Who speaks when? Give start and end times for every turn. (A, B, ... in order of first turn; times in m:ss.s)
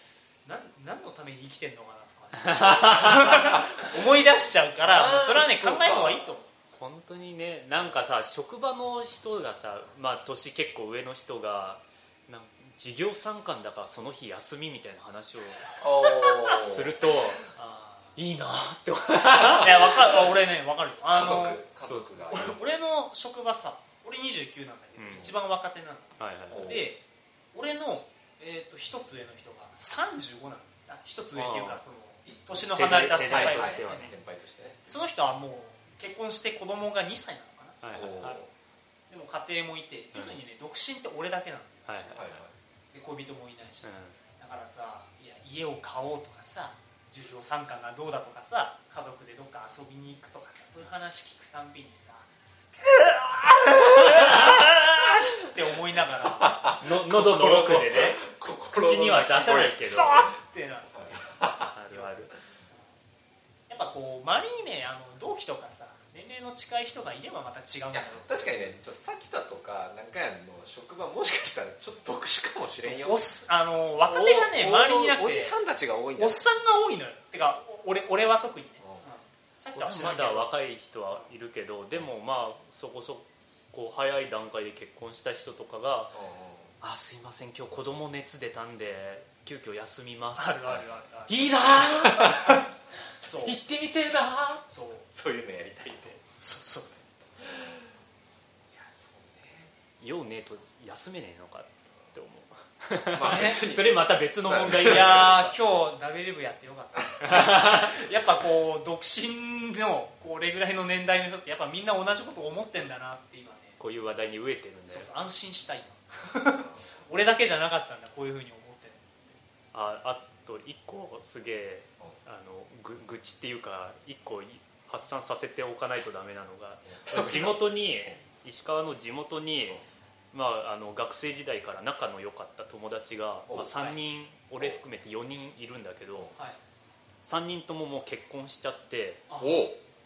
0:00.4-0:06.5 A
0:02.4-0:03.6 B
0:04.8-0:06.3 C
0:06.7-0:17.4 B
0:15.8-0:17.0 C
0:17.4-0:18.2 A
0:18.2-0:20.2 B
0:19.5-0:21.6 A
0:21.1-0:22.6 C
0:21.8-0:22.3 B
0:22.3-0:27.0 A
0:25.0-0:25.3 B
0:26.2-0:26.8 B
0:26.5-0:26.9 C
0:27.5-0:34.1 A
0:31.3-0:31.8 B
0:32.7-0:34.1 B
0:33.2-0:34.9 C
0:34.9-0:37.8 A
0:37.8-0:38.4 B
0:37.9-0:38.5 C
0:39.1-0:42.2 A
0:40.1-0:40.4 B
0:41.9-0:42.4 B
0:42.1-0:42.5 C
0:42.9-0:56.7 A
0:43.8-0:44.2 B
0:53.9-0:54.6 B
0:56.4-0:59.8 C
0:56.8-1:00.3 B
0:59.0-1:02.1 A
1:00.9-1:01.7 C
1:01.7-1:02.3 B
1:03.7-1:08.7 A
1:07.9-1:13.2 C
1:12.8-1:15.6 A
1:14.0-1:16.4 C
1:16.2-1:20.5 A
1:19.7-1:26.2 B
1:26.1-1:26.7 C
1:26.8-1:30.6 B
1:30.4-1:32.6 A
1:31.3-1:32.6 B
1:33.2-1:33.6 A
1:33.3-1:34.6 B
1:34.7-1:35.1 A
1:35.1-1:36.2 C
1:36.0-1:37.1 A
1:37.4-1:37.9 C
1:38.7-1:39.7 C
1:40.0-1:45.5 B
1:43.1-1:45.4 C
1:43.2-1:43.7 A
1:44.8-1:53.8 A
1:47.2-1:47.9 B
1:53.8-1:55.1 B
1:54.9-1:59.4 A
1:56.6-1:57.0 C
1:59.7-2:16.3 B
2:06.9-2:08.1 C
2:13.7-2:14.0 A
2:17.2-2:19.2 B
2:19.3-2:19.7 A
2:19.4-2:19.8 C